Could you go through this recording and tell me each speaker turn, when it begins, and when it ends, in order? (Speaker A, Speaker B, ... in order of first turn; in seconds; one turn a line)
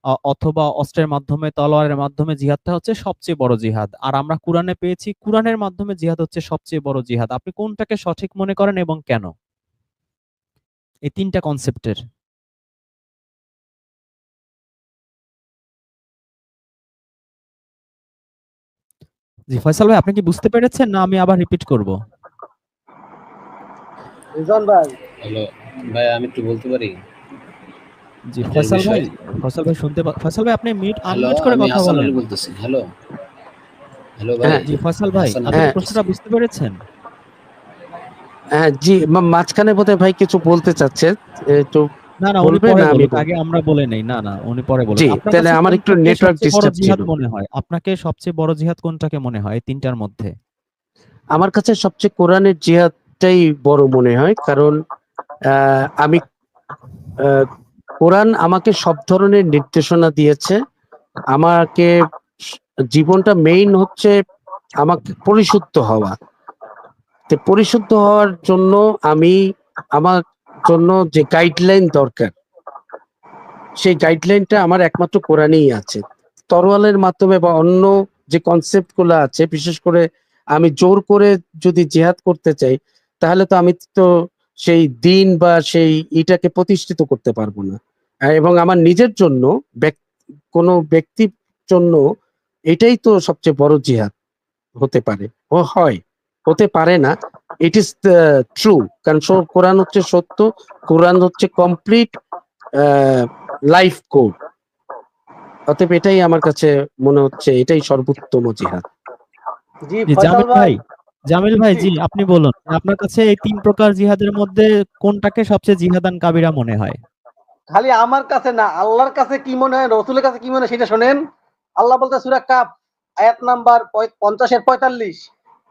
Speaker A: 0.3-9.3
Speaker A: 11.1-12.0
Speaker A: 19.5-21.9
Speaker B: 24.4-24.9
Speaker C: 25.2-26.9
Speaker A: 28.3-32.2
Speaker C: 28.5-29.1
Speaker C: 31.1-32.8
Speaker C: 34.2-36.1
Speaker A: 34.6-36.7
Speaker D: 38.6-41.9
Speaker A: 42.3-50.3
Speaker D: 42.4-43.3
Speaker D: 45.0-47.1
Speaker D: 51.4-54.8
Speaker D: 55.5-56.2
Speaker D: 58.0-60.6
Speaker D: 61.4-61.9
Speaker D: 62.9-64.1
Speaker D: 64.8-66.1
Speaker D: 67.3-69.3
Speaker D: 70.0-72.3
Speaker D: 73.8-80.0
Speaker D: 80.6-84.0
Speaker D: 84.7-87.8
Speaker D: 88.3-90.0
Speaker D: 90.5-92.0
Speaker D: 92.7-94.1
Speaker D: 94.8-97.1
Speaker D: 97.7-102.1
Speaker D: 102.8-104.3
Speaker D: 105.7-108.8
Speaker B: 109.9-110.7
Speaker A: 110.1-110.8
Speaker A: 111.3-117.0
Speaker B: 117.7-121.2
Speaker B: 121.8-122.7
Speaker B: 123.2-125.3